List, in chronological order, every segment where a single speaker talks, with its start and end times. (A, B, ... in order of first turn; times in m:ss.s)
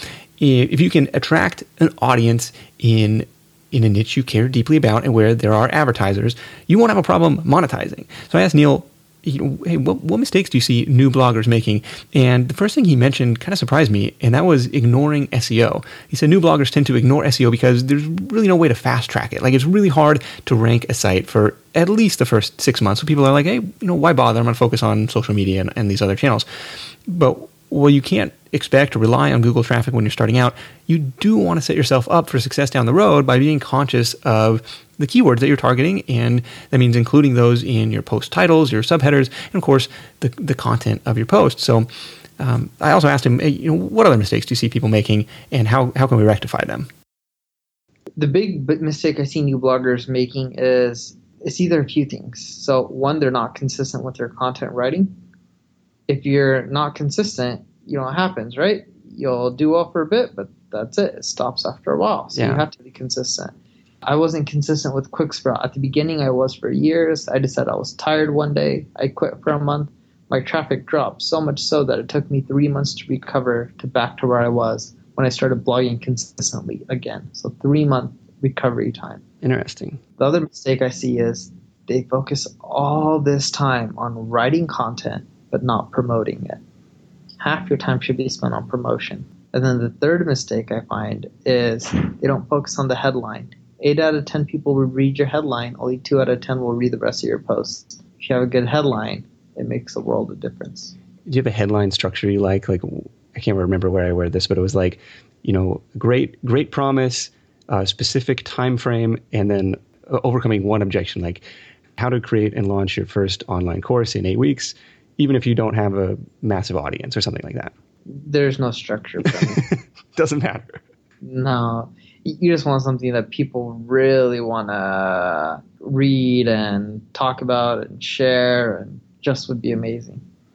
0:00.4-0:26.4 A
0:27.1-0:41.9 A
0:42.4-0:46.9 A
0:48.2-0:55.1 B
0:56.1-1:03.5 B
1:02.3-1:02.6 C
1:04.0-1:19.2 B
1:19.4-1:20.0 C
1:20.2-1:26.6 B
1:27.4-1:40.9 B
1:41.2-1:51.4 C
1:52.0-1:57.7 C
1:58.1-1:59.6 B
1:59.2-2:00.8 C
2:01.2-2:10.2 B